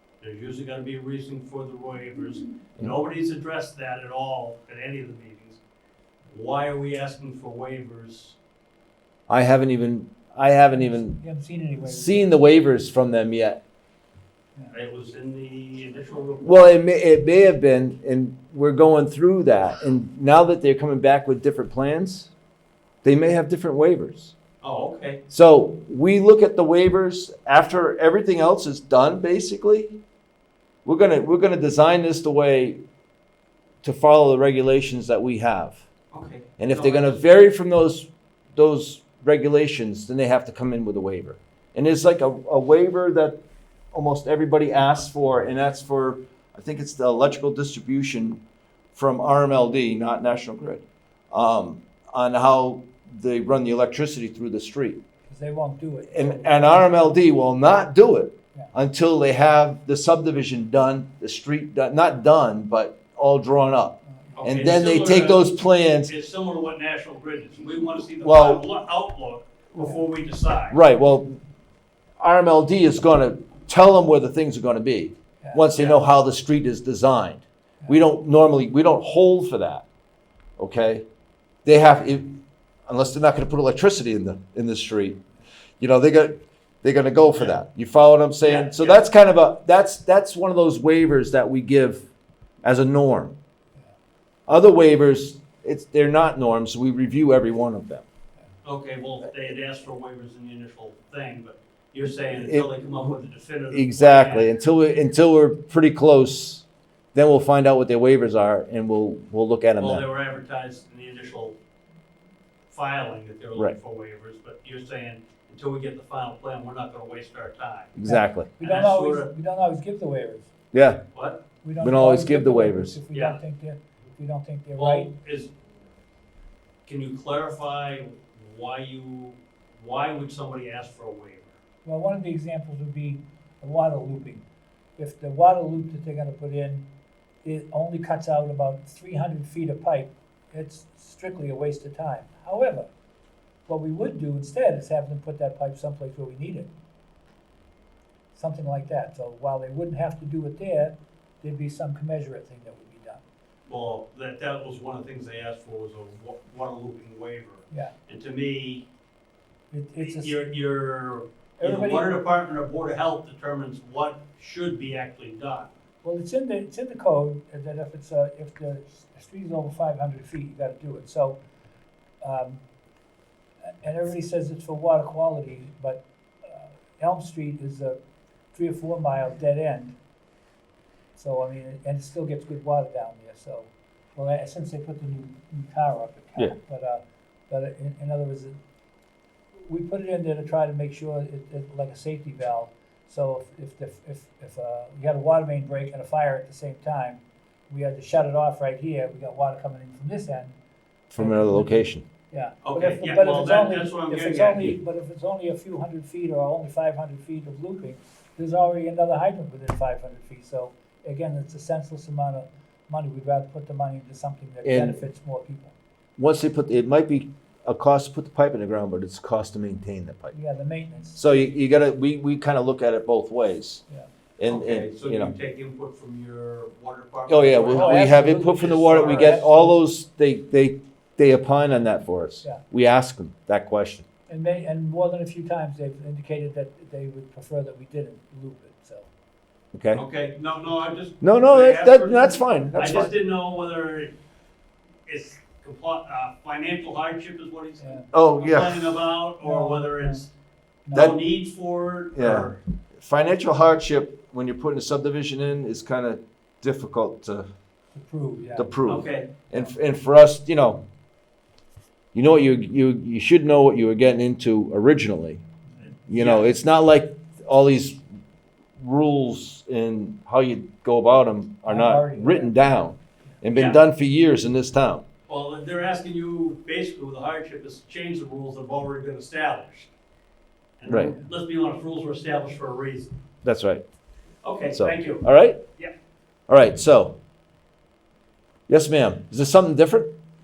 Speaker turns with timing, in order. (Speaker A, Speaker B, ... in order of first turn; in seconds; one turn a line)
Speaker A: 0.2-5.6
Speaker A: 6.3-8.4
Speaker B: 9.3-11.2
Speaker C: 10.7-12.4
Speaker B: 11.8-13.6
Speaker A: 14.7-16.7
Speaker B: 16.4-22.3
Speaker B: 23.0-24.3
Speaker A: 24.6-25.2
Speaker B: 25.3-30.0
Speaker B: 30.8-32.8
Speaker B: 33.8-35.8
Speaker A: 36.1-37.2
Speaker B: 36.6-43.4
Speaker B: 43.9-48.4
Speaker B: 48.9-55.0
Speaker C: 55.3-57.1
Speaker B: 56.1-66.1
Speaker C: 64.0-64.5
Speaker A: 64.4-70.8
Speaker B: 68.2-68.6
Speaker B: 70.7-71.4
Speaker B: 72.2-79.8
Speaker B: 80.6-81.0
Speaker B: 81.6-82.3
Speaker B: 82.9-85.2
Speaker B: 85.8-92.0
Speaker A: 88.4-89.0
Speaker B: 92.6-93.4
Speaker B: 94.5-98.0
Speaker A: 98.6-104.5
Speaker B: 102.3-102.8
Speaker B: 103.7-110.0
Speaker A: 109.8-111.5
Speaker A: 112.7-118.0
Speaker B: 118.0-118.5
Speaker C: 118.0-120.5
Speaker A: 118.6-119.3
Speaker B: 120.7-121.0
Speaker A: 121.1-121.4
Speaker C: 121.6-125.1
Speaker B: 121.8-123.0
Speaker A: 123.1-123.4
Speaker A: 124.8-125.5
Speaker A: 126.8-131.6
Speaker C: 131.8-134.4
Speaker C: 135.0-136.8
Speaker C: 137.4-142.9
Speaker C: 143.7-146.7
Speaker C: 148.3-153.2
Speaker A: 153.7-158.8
Speaker C: 159.7-160.4
Speaker A: 160.0-165.7
Speaker C: 161.6-162.2
Speaker C: 166.0-171.4
Speaker C: 172.2-172.6
Speaker C: 173.8-178.0
Speaker C: 178.5-179.9
Speaker C: 181.2-188.5
Speaker C: 189.6-200.6
Speaker B: 201.1-202.0
Speaker C: 201.2-215.7
Speaker A: 202.6-204.8
Speaker B: 214.6-215.0
Speaker B: 216.2-220.3
Speaker C: 220.3-221.2
Speaker B: 221.1-223.8
Speaker B: 224.4-225.3
Speaker A: 224.4-229.4
Speaker B: 227.3-234.1
Speaker C: 227.7-229.8
Speaker C: 234.3-239.1
Speaker B: 239.7-240.0
Speaker A: 239.9-244.1
Speaker B: 241.2-243.1
Speaker A: 245.1-250.3
Speaker C: 247.8-248.1
Speaker B: 248.1-249.0
Speaker C: 249.4-250.2
Speaker C: 250.8-251.2
Speaker A: 250.9-252.6
Speaker B: 250.9-251.2
Speaker B: 252.1-257.5
Speaker C: 257.9-258.8
Speaker B: 258.6-260.8
Speaker A: 258.9-259.3
Speaker B: 262.1-265.4
Speaker B: 266.1-268.0
Speaker A: 266.1-266.5
Speaker B: 268.8-275.1
Speaker C: 271.6-272.6
Speaker A: 273.5-273.8
Speaker A: 275.3-279.9
Speaker A: 280.8-283.1
Speaker B: 280.9-281.1
Speaker B: 283.4-283.8
Speaker A: 284.4-285.2
Speaker B: 284.7-285.6
Speaker B: 286.5-287.2
Speaker B: 288.7-290.1